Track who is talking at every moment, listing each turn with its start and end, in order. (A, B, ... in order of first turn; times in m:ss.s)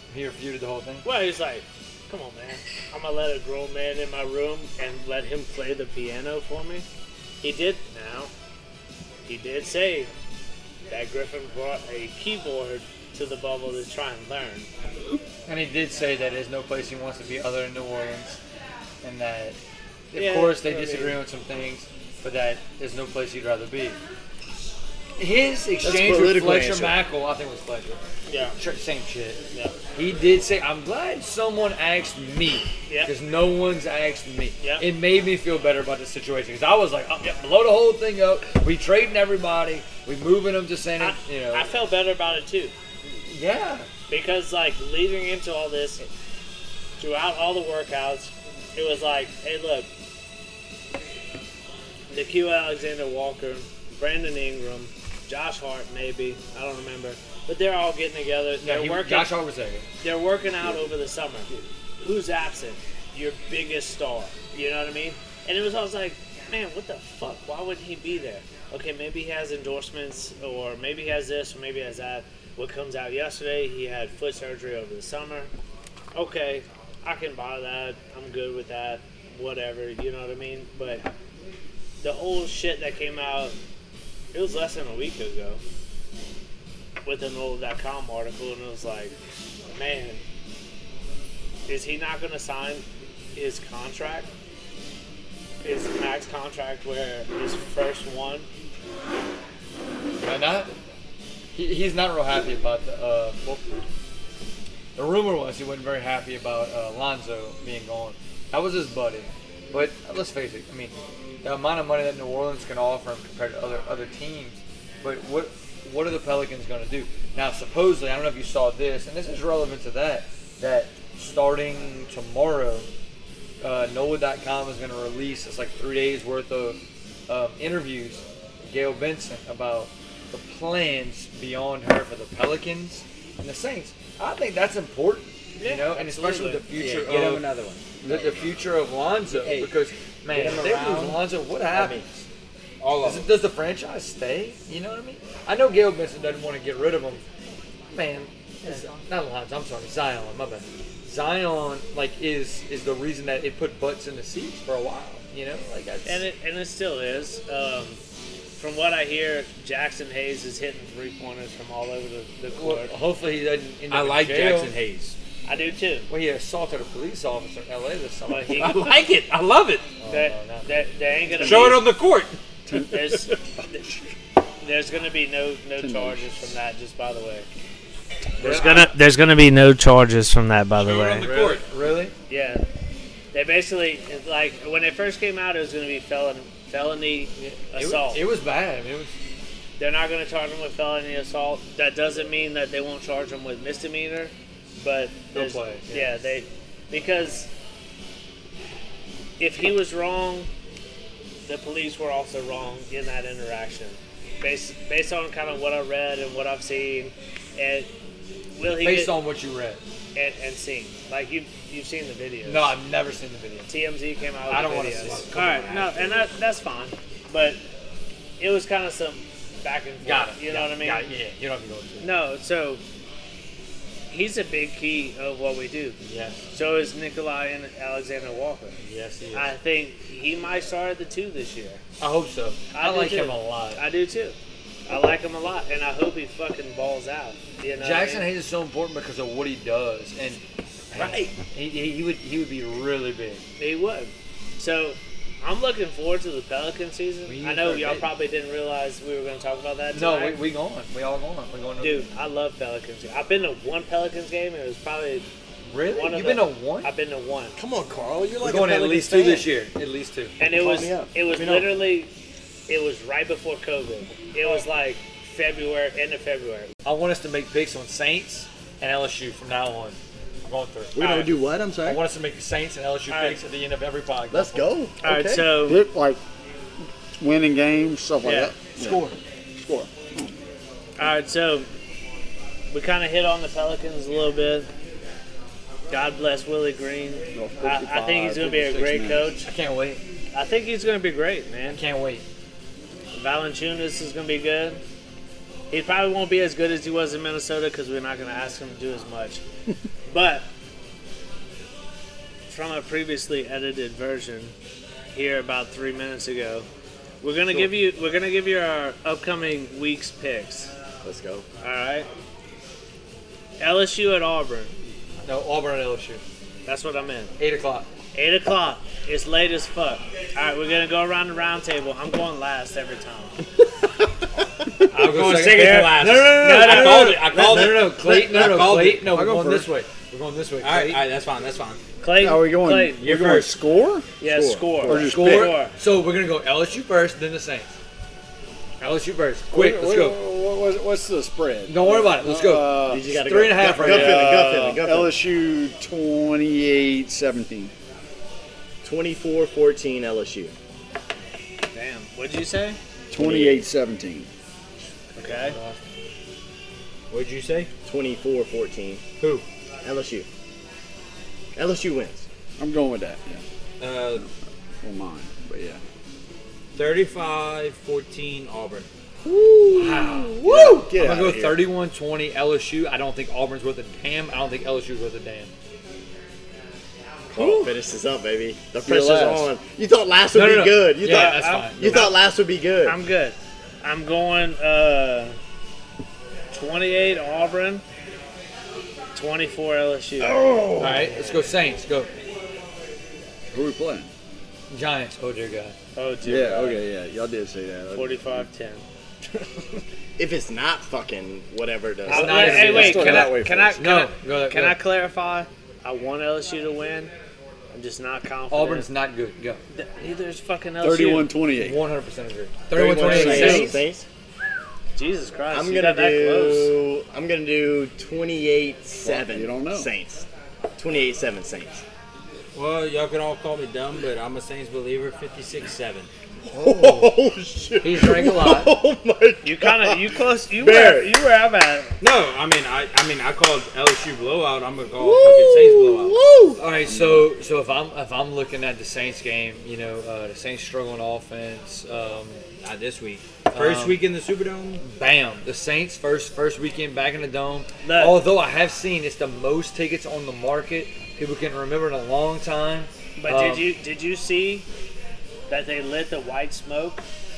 0:00.1-0:01.0 A
0:01.0-0:06.8 B
0:07.4-0:08.3 B
0:09.3-0:10.1 B
0:10.9-0:14.7 B
0:15.4-0:18.4 A
0:19.0-0:19.6 A
0:20.1-0:24.0 A
0:20.1-0:21.2 B
0:25.2-0:28.0 A
0:25.8-0:27.0 C
0:28.3-0:28.6 B
0:28.6-0:29.4 A
0:29.9-0:41.7 A
0:32.9-0:33.1 B
0:34.6-0:34.9 B
0:41.0-0:42.7 B
0:43.2-0:43.9 A
0:44.1-0:46.0 B
0:47.0-0:49.9 B
0:52.1-0:59.4 B
0:58.6-0:59.8 A
1:00.0-1:01.5 B
1:02.0-1:15.5 B
1:16.1-1:21.1 B
1:22.0-1:23.6 B
1:24.3-1:25.6 B
1:27.0-1:29.1 B
1:29.7-1:30.2 B
1:31.7-1:34.3 B
1:35.6-1:38.4 B
1:40.2-1:40.7 A
1:41.5-1:43.6 A
1:45.0-2:02.9 A
2:03.6-2:17.4 A
2:15.6-2:16.6 B
2:16.8-2:18.0 D
2:18.0-2:18.4 E
2:18.0-2:22.0 A
2:19.3-2:19.7 D
2:20.3-2:22.1 D
2:22.8-2:23.3 D
2:23.0-2:27.2 A
2:27.9-2:36.2 A
2:36.0-2:38.0 B
2:38.6-2:42.9 B
2:42.5-2:44.7 A
2:43.9-2:45.2 D
2:45.4-2:46.1 B
2:46.1-2:48.7 A
2:48.3-2:49.0 B
2:48.6-2:49.8 D
2:50.0-2:50.8 A
2:50.1-2:51.9 B
2:51.4-2:52.4 D
2:52.7-2:53.9 E
2:52.8-2:53.4 B
2:54.6-2:57.5 B
2:55.8-2:56.5 E
2:58.4-2:58.9 A
2:58.4-3:01.3 B
3:00.8-3:02.1 A
3:01.2-3:01.5 D
3:02.3-3:02.6 B
3:03.3-3:08.2 B
3:07.4-3:09.1 A
3:09.8-3:17.5 B
3:15.3-3:16.2 A
3:19.4-3:20.5 B
3:21.4-3:27.9 B
3:28.5-3:29.2 B
3:28.7-3:29.8 A
3:30.1-3:32.8 B
3:32.4-3:33.7 A
3:33.7-3:37.6 B
3:34.5-3:36.2 A
3:38.4-3:41.1 B
3:40.0-3:42.1 A
3:42.0-3:42.8 B
3:44.1-3:46.0 B
3:46.0-3:46.4 A
3:46.5-3:48.8 B
3:48.8-3:49.5 A
3:49.3-3:51.8 B
3:52.0-3:53.8 A
3:52.7-3:54.4 B
3:54.9-3:58.3 B
3:57.8-4:03.4 A
4:03.6-4:10.4 B
4:07.2-4:08.1 A
4:09.9-4:12.1 A
4:11.8-4:15.2 B
4:15.6-4:16.9 A
4:15.9-4:17.6 B
4:17.6-4:19.5 C
4:18.4-4:20.3 A
4:20.4-4:22.1 B
4:20.4-4:21.8 C
4:22.7-4:26.7 B
4:26.8-4:34.7 A
4:30.9-4:32.0 C
4:33.1-4:33.4 B
4:34.3-4:35.5 C
4:35.0-4:35.8 B
4:35.6-4:36.2 E
4:37.2-4:40.3 E
4:38.2-4:38.5 B
4:38.8-4:39.2 A
4:41.0-4:41.7 B
4:42.7-4:44.7 B
4:45.9-4:49.5 B
4:47.3-4:49.4 E
4:49.4-4:50.0 A
4:50.3-4:51.8 B
4:51.7-4:52.2 A
4:53.1-4:54.8 B
4:55.7-4:59.4 B
5:00.1-5:00.5 B
5:02.5-5:04.5 B
5:05.1-5:06.7 B
5:07.2-5:10.7 B
5:11.0-5:11.4 C
5:11.6-5:12.1 B
5:13.6-5:14.7 B
5:15.2-5:16.2 A
5:16.6-5:17.3 B
5:17.4-5:17.9 A
5:18.1-5:23.4 B
5:24.9-5:31.0 A
5:24.9-5:27.8 D
5:25.3-5:27.2 B
5:27.4-5:29.7 E
5:27.5-5:27.8 C
5:30.6-5:31.8 D
5:32.0-5:33.0 B
5:32.1-5:34.1 E
5:33.0-5:33.6 D
5:34.2-5:35.7 B
5:34.2-5:35.1 C
5:34.8-5:35.6 E
5:35.0-5:37.7 A
5:38.8-5:40.2 A
5:39.5-5:43.1 E
5:41.7-5:44.8 A
5:42.8-5:45.2 C
5:43.7-5:47.7 E
5:48.8-5:50.5 C
5:51.7-5:52.8 B
5:53.1-5:54.3 E
5:53.1-5:53.6 C
5:55.1-5:55.9 A
5:55.2-5:55.6 B
5:57.1-5:57.7 D
5:57.8-5:59.0 C
5:59.2-5:59.4 D
5:59.8-6:00.3 C
6:01.6-6:02.3 C
6:02.6-6:03.4 E
6:03.8-6:04.3 D
6:04.8-6:05.8 E
6:06.7-6:08.9 D
6:09.2-6:11.1 C
6:09.7-6:15.5 A
6:10.9-6:11.6 E
6:17.3-6:22.9 C
6:18.8-6:19.5 E
6:20.3-6:22.1 A
6:21.0-6:22.2 B
6:22.8-6:25.4 B
6:26.5-6:27.8 B
6:29.1-6:30.4 B
6:30.2-6:31.1 E
6:30.8-6:32.1 A
6:33.5-6:34.1 E
6:34.7-6:35.7 A
6:36.0-6:36.8 B
6:36.2-6:38.4 E
6:37.9-6:38.8 B
6:40.2-6:42.5 C
6:42.0-6:47.1 B
6:42.1-6:44.8 A
6:42.5-6:43.7 E
6:47.7-6:48.9 B
6:48.5-6:49.6 A
6:49.7-6:51.4 B
6:50.8-6:51.8 E
6:51.6-6:53.8 A
6:52.7-6:54.0 C
6:52.9-6:53.8 E
6:55.0-6:56.7 B
6:55.5-7:00.3 C
6:59.0-6:59.9 E
7:00.8-7:01.8 C
7:02.5-7:06.1 D
7:06.5-7:11.2 C
7:06.6-7:07.1 A
7:07.8-7:08.7 A
7:09.4-7:11.9 B
7:12.0-7:16.2 D
7:15.0-7:16.6 C
7:16.6-7:22.4 A
7:16.8-7:17.3 E
7:22.6-7:24.8 D
7:23.5-7:24.0 A
7:24.8-7:33.7 A
7:27.8-7:28.2 B
7:33.2-7:34.7 B
7:35.5-7:37.0 B